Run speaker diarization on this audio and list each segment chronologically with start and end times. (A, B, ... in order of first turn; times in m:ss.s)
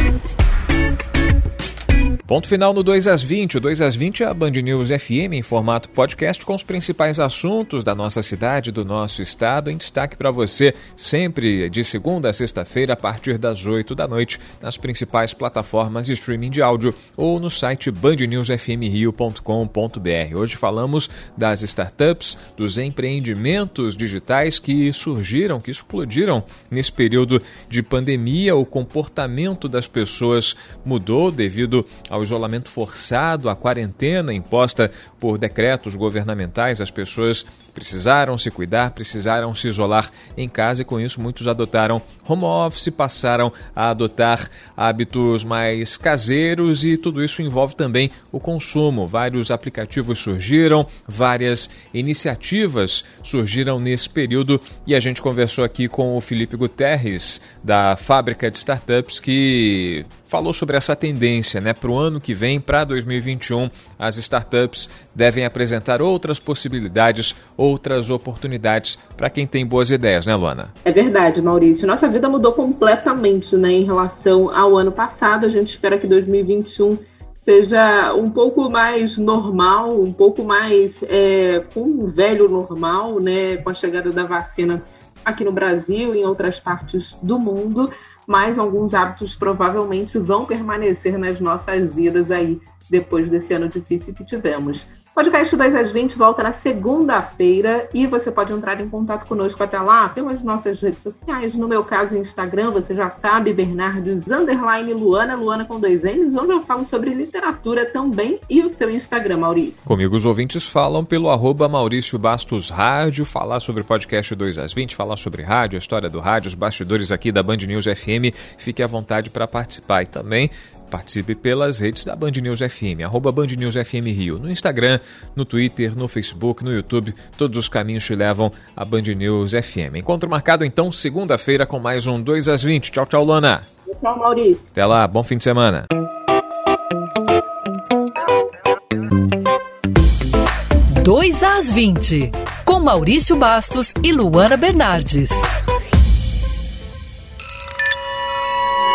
0:02.3-1:10.7 A
1:10.8-1:49.8 B
1:49.9-2:13.7 A
2:13.9-2:14.6 B
2:14.8-2:15.9 A
2:20.9-2:25.5 C